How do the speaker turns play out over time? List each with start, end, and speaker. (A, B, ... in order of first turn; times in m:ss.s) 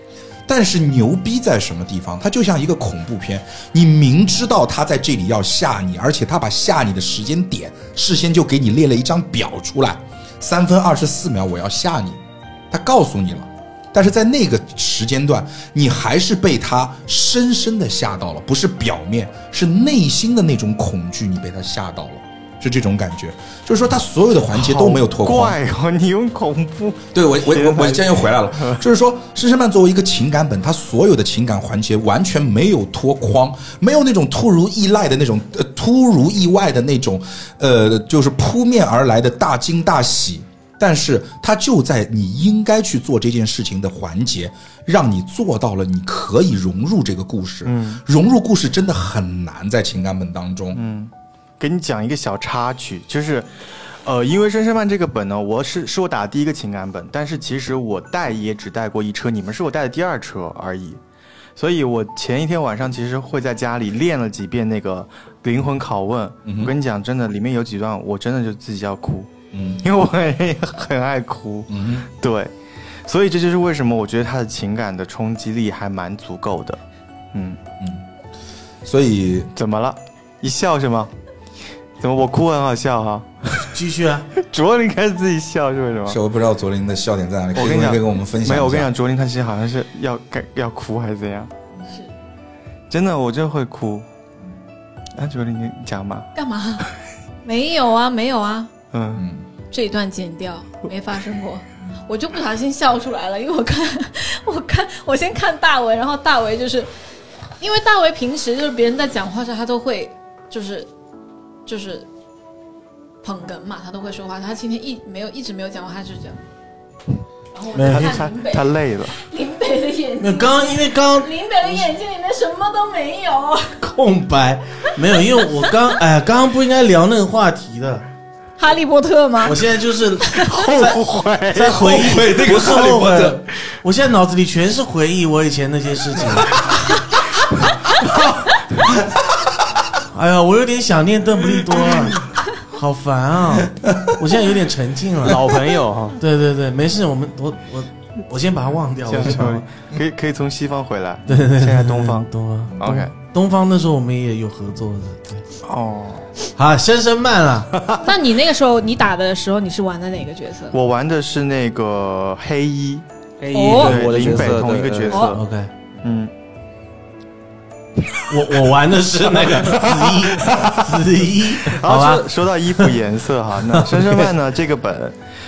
0:00.5-0:25.6 A
0:24.5-0:28.8 B
0:27.1-0:50.8 A
0:47.6-0:48.0 B
0:50.7-1:01.0 B
1:01.6-1:12.5 B
1:06.4-1:06.7 A
1:09.5-1:09.8 A
1:11.7-1:12.1 A
1:13.0-1:16.8 B
1:17.3-1:17.6 B
1:17.8-1:18.0 A
1:18.8-1:19.5 A
1:19.5-1:21.1 B
1:22.0-1:23.6 B
1:23.6-1:24.3 C
1:24.4-1:26.2 B
1:26.1-1:28.9 A
1:27.5-1:31.5 B
1:32.9-1:34.0 B
1:35.2-1:36.3 B
1:36.3-1:36.9 D
1:37.4-1:38.7 D
1:38.9-1:39.2 B
1:39.2-1:39.4 A
1:39.7-1:46.9 D
1:47.6-1:50.9 D
1:51.6-1:52.1 D
1:53.2-1:56.4 D
1:57.5-2:03.8 D
1:57.7-1:58.2 C
1:57.8-1:59.2 B
2:00.2-2:01.8 C
2:03.8-2:08.0 C
2:08.6-2:09.6 D
2:09.4-2:11.0 C
2:10.2-2:10.5 D
2:10.5-2:12.0 B
2:11.5-2:16.6 C
2:11.7-2:13.4 A
2:20.1-2:25.4 C
2:25.2-2:26.2 E
2:26.2-2:29.6 C
2:29.1-2:33.1 B
2:31.3-2:35.4 C
2:35.6-2:36.3 B
2:36.5-2:37.8 C
2:38.0-2:40.8 D
2:40.7-2:43.0 B
2:43.4-2:45.3 E
2:43.5-2:44.0 D
2:43.6-2:45.4 B
2:45.1-2:45.4 D
2:45.3-2:45.7 C
2:46.0-2:46.3 B
2:48.3-2:52.3 C
2:49.5-2:50.7 B
2:51.6-2:55.2 B
2:53.7-2:54.3 C